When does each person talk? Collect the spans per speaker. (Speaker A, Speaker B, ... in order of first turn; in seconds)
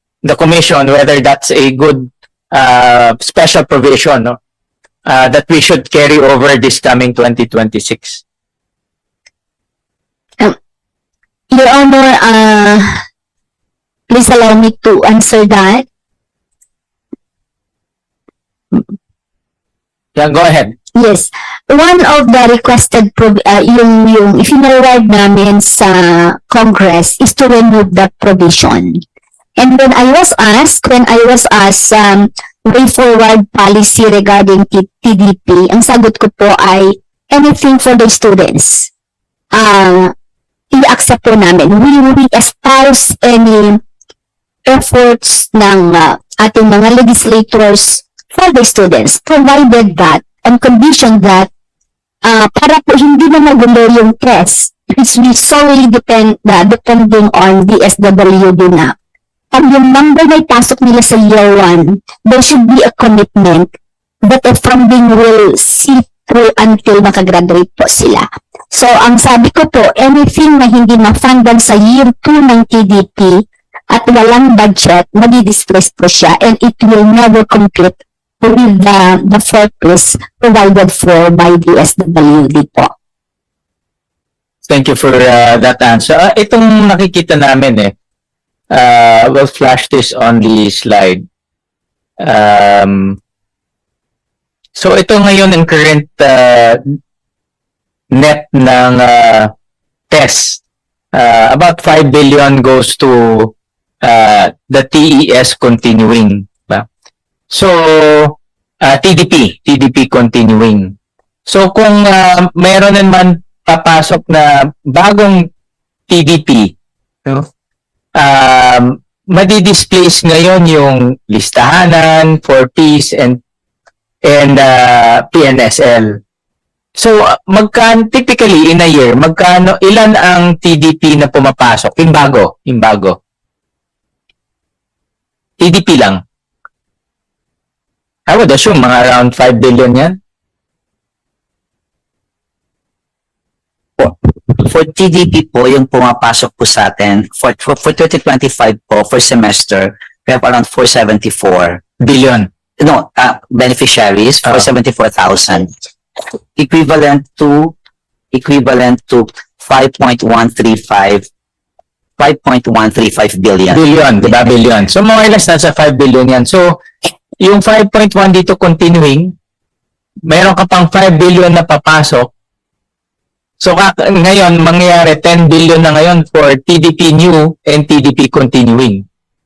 Speaker A: 0.2-4.4, 5.0-8.2, 20.1-20.7, 84.7-87.9, 88.7-91.2, 92.2-93.2, 94.8-96.8, 98.1-99.5, 100.1-100.6, 101.1-103.5, 104.0-106.8, 107.5-110.9, 111.5-115.5, 116.1-116.7, 118.2-123.4, 124.2-126.2, 127.0-133.2, 135.6-136.2, 138.3-140.2, 152.0-152.5, 163.7-166.8, 167.4-169.3, 170.3-172.3, 173.6-179.0
Speaker B: 11.5-12.9, 14.1-15.8, 20.9-29.0, 29.6-38.9, 39.5-40.1, 40.7-43.8, 44.6-51.5, 52.2-59.0, 59.5-82.9
Speaker C: 144.0-151.8, 152.8-155.8, 156.6-157.7, 158.3-161.3, 162.2-164.3